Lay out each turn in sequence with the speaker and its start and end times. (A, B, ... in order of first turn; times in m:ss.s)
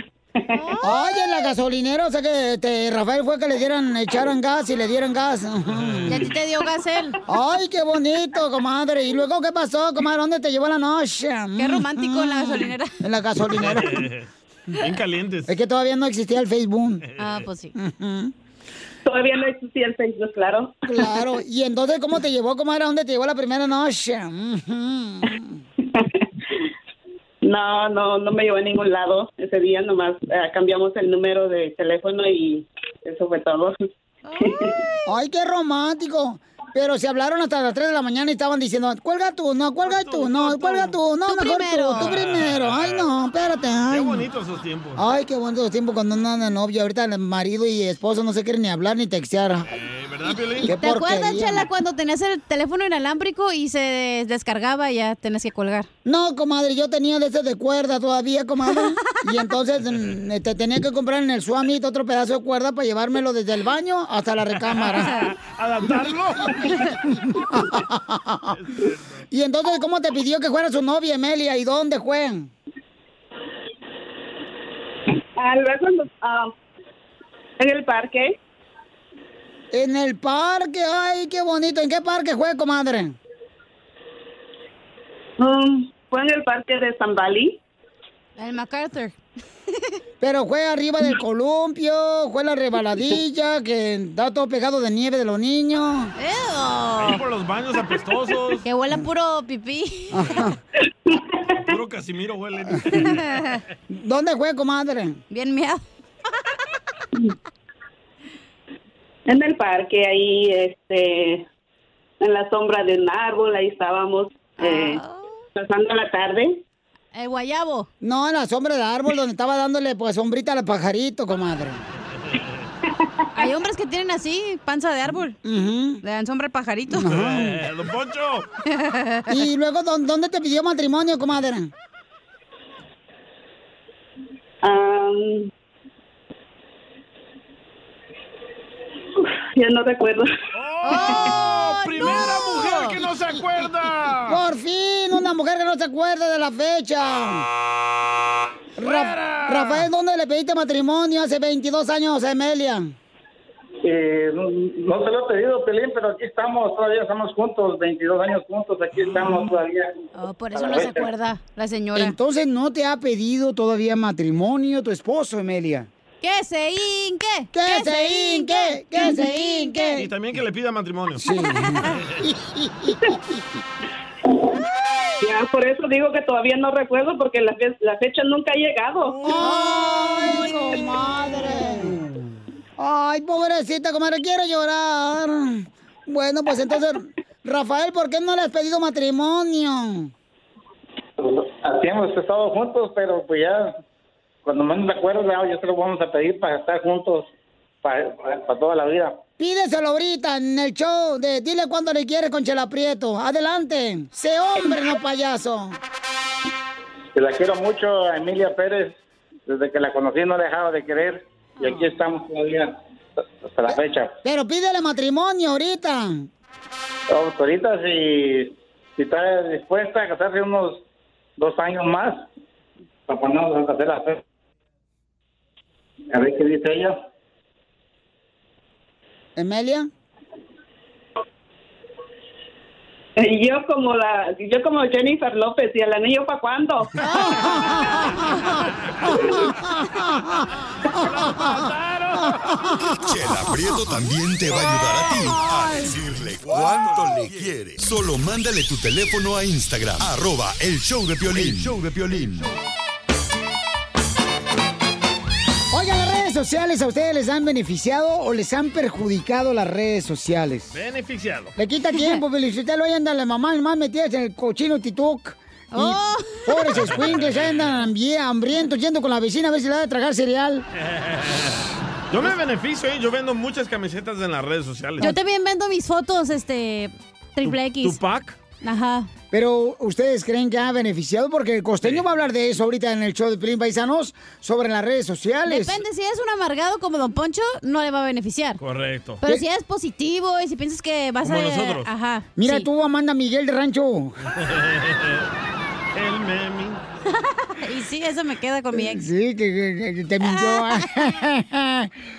0:00.4-0:00.7 A
0:00.5-0:01.4 B
0:00.8-0:06.3 C
0:05.8-0:06.1 D
0:06.1-0:07.2 B
0:07.3-0:14.1 C
0:11.6-0:13.0 B
0:13.5-0:15.5 D
0:15.5-0:17.0 C
0:17.2-0:17.7 B
0:17.8-0:18.3 C
0:19.0-0:21.1 A
0:20.9-0:25.6 C
0:25.8-0:26.2 A
0:27.4-0:33.8 A
0:34.2-0:35.1 B
0:34.4-0:34.8 A
0:35.1-0:44.2 C
0:39.8-0:41.0 D
0:41.3-0:42.1 B
0:42.0-0:43.1 D
0:43.9-0:45.0 D
0:45.0-0:49.7 C
0:49.7-0:50.7 D
0:50.6-0:51.6 C
0:50.7-0:55.9 B
0:56.0-1:05.3 C
1:04.7-1:06.8 D
1:07.1-1:08.6 C
1:08.5-1:09.2 D
1:09.3-1:12.5 C
1:15.4-1:16.5 A
1:17.6-1:18.4 A
1:19.7-1:23.2 C
1:25.4-1:27.6 A
1:28.4-1:29.2 B
1:30.2-1:36.1 C
1:36.2-1:37.2 B
1:37.0-1:38.6 D
1:38.6-1:40.4 B
1:40.1-1:40.6 C
1:41.1-1:41.4 A
1:41.5-1:43.4 D
1:42.9-1:43.6 B
1:43.9-1:45.2 C
1:45.3-1:45.8 B
1:49.3-1:51.5 A
1:52.2-1:55.0 A
1:54.6-1:55.3 B
1:55.6-1:56.6 A
1:57.2-1:57.9 B
1:58.0-2:01.8 C
2:03.4-2:05.4 B
2:05.4-2:06.0 C
2:06.0-2:07.2 B
2:06.9-2:07.6 C
2:07.0-2:08.5 D
2:08.7-2:09.4 B
2:09.3-2:11.7 C
2:14.6-2:15.5 A
2:19.2-2:20.3 A
2:20.5-2:24.4 D
2:20.8-2:23.0 B
2:24.3-2:27.5 C
2:28.8-2:32.9 C
2:28.8-2:29.9 D
2:33.8-2:39.9 E
2:40.2-2:42.2 B
2:40.5-2:41.1 E
2:42.0-2:45.9 C
2:46.2-2:50.0 B
2:47.5-2:50.1 C
2:50.0-2:51.3 D
2:51.2-2:53.4 C
2:55.2-2:59.2 A
2:59.2-3:02.0 C
2:59.3-3:00.8 B
3:02.8-3:10.1 C
3:11.2-3:13.8 E
3:14.4-3:17.3 E
3:17.8-3:19.2 E
3:19.4-3:25.8 C
3:27.2-3:29.0 E
3:29.5-3:34.1 E
3:34.2-3:36.3 C
3:37.1-3:40.8 E
3:41.4-3:42.2 E
3:43.1-3:44.2 E
3:46.1-3:47.0 E
3:49.4-3:49.9 C
3:53.2-3:56.9 A
3:57.0-3:57.4 B
3:57.1-3:58.5 C
3:59.1-4:00.4 C
4:00.9-4:03.0 D
4:01.0-4:01.6 C
4:02.7-4:03.0 C
4:03.0-4:12.5 F
4:05.2-4:05.6 C
4:06.5-4:07.2 D
4:15.7-4:20.7 C
4:20.7-4:21.5 D
4:21.6-4:30.7 C
4:25.7-4:26.8 B
4:27.0-4:27.6 D
4:30.9-4:31.6 D
4:32.1-4:35.1 D
4:35.0-4:38.0 B
4:37.4-4:38.4 D
4:38.6-4:39.1 B
4:39.3-4:45.8 C
4:45.5-4:48.6 B
4:48.6-4:49.2 D
4:49.2-4:52.7 B
4:51.2-4:51.9 D
4:52.4-4:54.2 C
4:54.4-4:55.3 D
4:56.0-4:56.8 D
4:57.1-4:59.1 B
4:58.7-5:01.9 C
5:00.3-5:00.8 B